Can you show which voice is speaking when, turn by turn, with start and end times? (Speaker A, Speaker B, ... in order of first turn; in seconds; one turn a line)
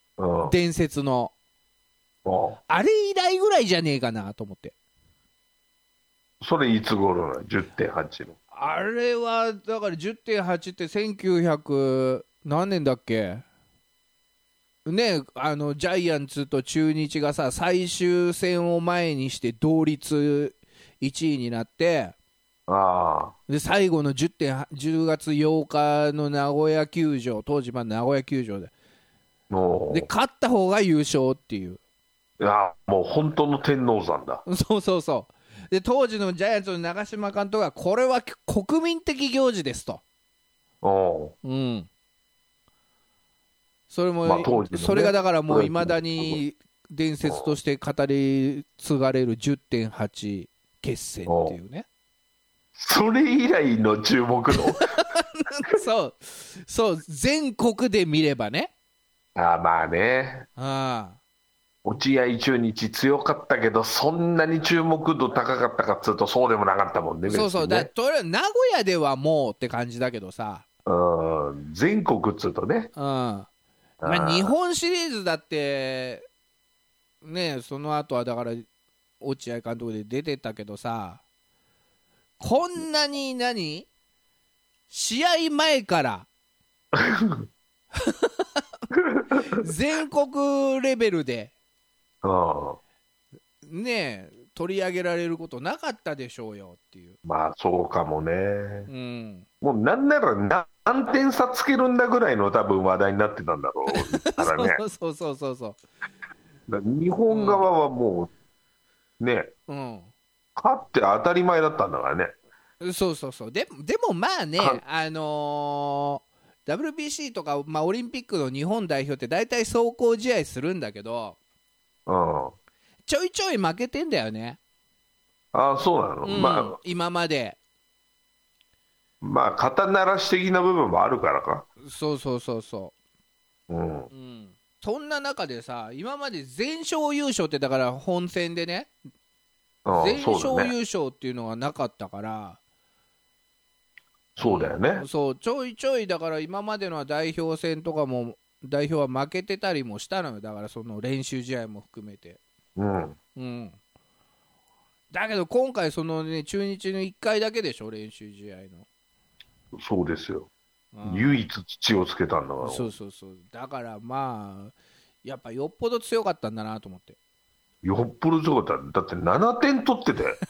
Speaker A: 0.2-0.6
Speaker B: 0.4-1.3
Speaker A: 2.2-2.6
Speaker B: 2.7-4.7
Speaker A: 6.4-8.4
Speaker B: 8.5-13.4
Speaker B: 14.9-22.1
Speaker A: 22.7-23.3
Speaker B: 23.5-28.7
Speaker A: 29.5-30.1
Speaker B: 29.9-31.8
Speaker A: 32.4-34.4
Speaker B: 34.5-40.0
Speaker A: 40.8-41.4
Speaker B: 41.4-41.9
Speaker B: 43.9-51.9
Speaker A: 44.2-46.4
Speaker A: 47.2-47.5
Speaker A: 51.3-51.6
Speaker A: 52.8-54.9
Speaker B: 54.5-58.7
Speaker A: 59.4-60.5
Speaker B: 60.6-61.2
Speaker A: 61.8-67.9
Speaker B: 67.3-70.7
Speaker A: 70.9-72.9
Speaker B: 73.0-73.5
Speaker A: 74.0-74.5
Speaker B: 74.0-76.3
Speaker B: 77.2-78.7
Speaker B: 79.2-81.2
Speaker B: 82.4-83.9
Speaker B: 84.9-86.3
Speaker A: 86.9-87.5
Speaker B: 88.0-88.6
Speaker A: 88.9-89.6
Speaker B: 89.4-91.5
Speaker A: 92.2-92.8
Speaker B: 93.7-97.2
Speaker A: 97.2-98.9
Speaker B: 98.9-99.5
Speaker A: 99.6-104.8
Speaker B: 103.9-105.8
Speaker A: 106.7-108.3
Speaker B: 107.3-107.7
Speaker A: 109.2-109.5
Speaker B: 109.7-110.1
Speaker A: 110.6-112.3
Speaker B: 112.8-121.4
Speaker A: 122.1-122.5
Speaker B: 123.1-124.6
Speaker A: 125.5-126.8
Speaker B: 126.2-127.6
Speaker A: 129.2-131.7
Speaker B: 131.8-132.9
Speaker A: 133.7-134.1
Speaker B: 134.1-138.9
Speaker A: 139.8-140.7
Speaker B: 139.9-142.6
Speaker A: 144.4-145.1
Speaker B: 144.4-152.4
Speaker A: 152.8-153.2
Speaker B: 153.4-153.8
Speaker B: 155.1-158.9
Speaker A: 159.7-160.5
Speaker B: 160.9-161.3
Speaker A: 161.1-162.9
Speaker B: 162.6-167.2
Speaker A: 167.8-170.4